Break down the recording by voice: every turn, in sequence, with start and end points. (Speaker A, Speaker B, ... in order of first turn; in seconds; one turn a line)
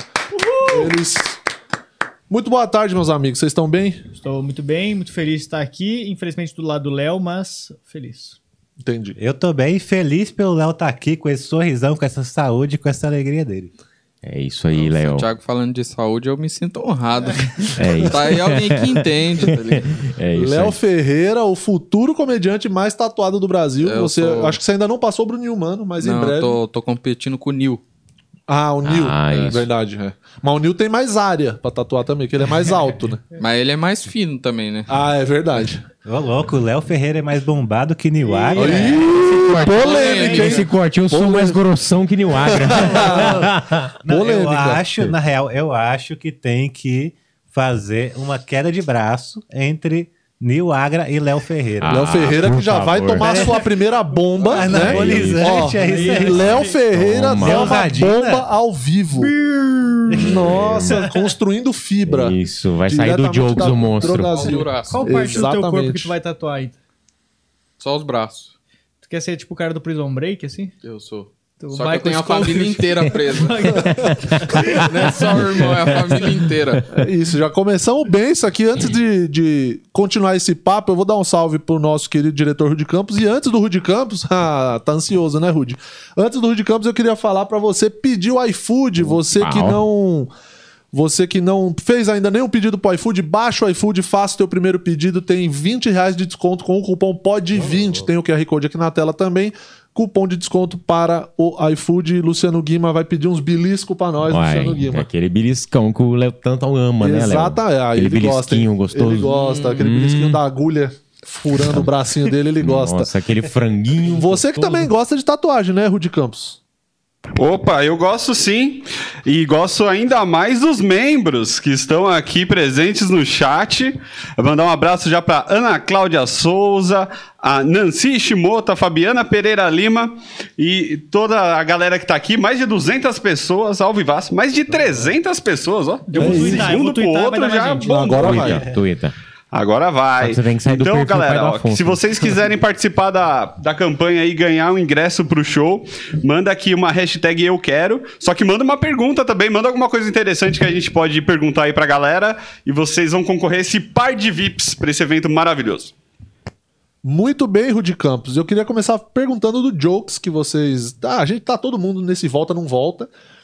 Speaker A: 0.4-0.9
Speaker B: 0.7-1.4
Speaker B: 2.3-4.0
Speaker A: 4.2-8.4
Speaker B: 8.8-9.2
Speaker C: 9.2-13.7
Speaker D: 14.2-15.3
Speaker E: 14.7-20.1
Speaker D: 17.8-20.8
Speaker B: 20.4-26.6
Speaker E: 23.8-24.6
Speaker E: 26.0-27.8
Speaker B: 28.5-33.2
Speaker D: 28.8-29.7
Speaker E: 33.4-34.9
Speaker B: 34.9-35.8
Speaker C: 36.0-39.1
Speaker A: 38.3-38.7
Speaker B: 38.5-41.6
Speaker D: 39.0-43.9
Speaker E: 39.6-40.6
Speaker A: 40.0-40.6
Speaker B: 42.4-43.5
Speaker C: 43.0-43.5
Speaker C: 44.0-52.0
Speaker B: 44.1-44.8
Speaker D: 51.8-53.6
Speaker B: 51.9-59.3
Speaker C: 53.2-53.5
Speaker A: 53.2-53.6
Speaker C: 54.5-56.6
Speaker D: 54.5-55.6
Speaker A: 55.5-56.8
Speaker D: 56.5-57.8
Speaker C: 57.4-58.5
Speaker A: 59.2-61.3
Speaker D: 60.1-61.0
Speaker B: 60.1-66.1
Speaker D: 62.0-64.5
Speaker E: 64.2-65.5
Speaker A: 64.9-66.8
Speaker E: 67.8-68.5
Speaker A: 69.0-70.7
Speaker E: 70.8-73.9
Speaker A: 71.6-75.6
Speaker D: 73.9-76.2
Speaker E: 74.6-76.9
Speaker B: 76.9-90.3
Speaker D: 89.0-89.8
Speaker B: 90.9-105.1
Speaker C: 97.5-98.0
Speaker D: 104.3-110.4
Speaker B: 107.0-113.1
Speaker E: 109.2-109.9
Speaker D: 111.6-111.9
Speaker D: 112.6-114.9
Speaker B: 114.0-116.6
Speaker F: 117.4-138.5
Speaker C: 134.7-135.1
Speaker A: 136.1-138.4
Speaker B: 136.2-136.7
Speaker B: 137.8-138.7
Speaker D: 138.1-139.1
Speaker F: 139.5-155.9
Speaker D: 140.2-142.3
Speaker B: 157.0-163.1